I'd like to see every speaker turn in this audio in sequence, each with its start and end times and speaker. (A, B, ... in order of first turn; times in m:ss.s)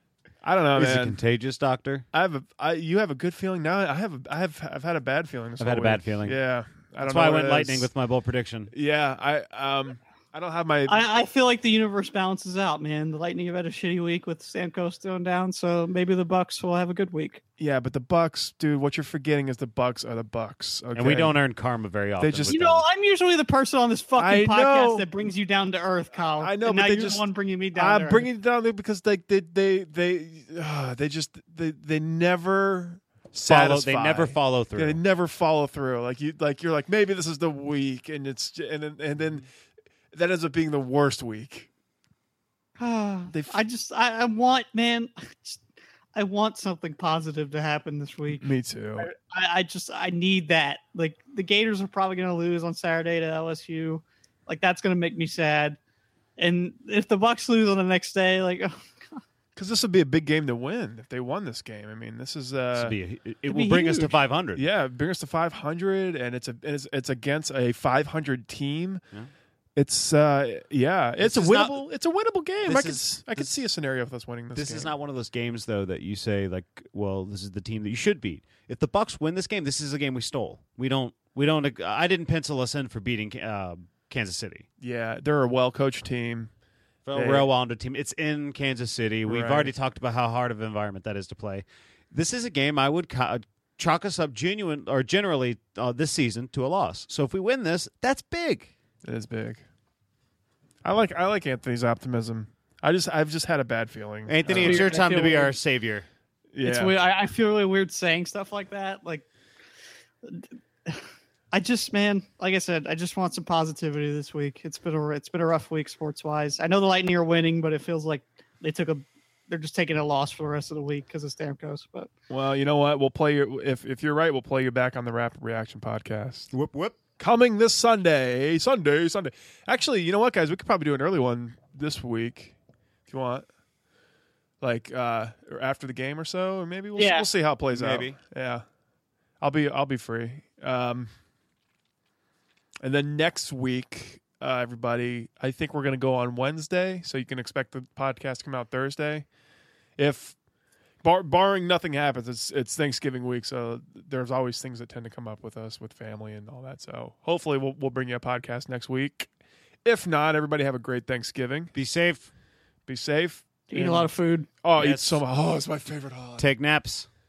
0:00.4-0:01.2 A
0:00.8-0:02.0 B
0:02.1-0:07.9 A
0:05.6-0:06.4 B
0:07.0-0:08.7 B
0:08.7-0:11.0 A
0:10.9-0:17.4 C
0:17.6-0:21.4 A
0:21.0-0:22.8 B
0:22.2-0:22.6 A
0:22.5-0:28.3 C
0:24.2-0:25.1 A
0:26.4-0:39.5 A
0:33.5-0:35.0 B
0:40.1-0:41.7 A
0:42.8-0:45.6 C
0:43.3-0:43.6 A
0:46.2-0:55.8 C
0:48.3-0:49.1 A
0:56.4-0:59.2 C
0:59.6-1:03.0 A
1:02.8-1:04.6 B
1:03.5-1:04.1 C
1:04.6-1:09.0 A
1:09.8-1:14.9 A
1:11.2-1:11.8 B
1:12.6-1:13.6 B
1:14.6-1:24.7 B
1:24.8-1:26.5 A
1:27.1-1:38.7 B
1:27.1-1:27.5 A
1:29.3-1:29.7 A
1:39.0-1:39.6 A
1:40.8-1:44.9 A
1:44.3-1:46.1 B
1:44.5-1:45.6 C
1:46.5-1:46.9 A
1:46.6-1:49.3 C
1:50.2-2:02.1 C
2:02.3-2:06.5 A
2:06.5-2:07.0 B
2:07.2-2:12.6 A
2:13.1-2:13.5 A
2:14.6-2:18.6 A
2:17.0-2:17.3 C
2:17.7-2:18.2 B
2:19.4-2:21.1 A
2:22.8-2:29.3 A
2:30.0-2:30.4 A
2:31.0-2:39.3 A
2:39.8-2:41.7 A
2:41.8-2:42.3 B
2:42.9-2:44.1 A
2:43.7-2:44.5 C
2:44.6-2:46.5 A
2:44.8-2:45.2 B
2:46.4-2:47.1 B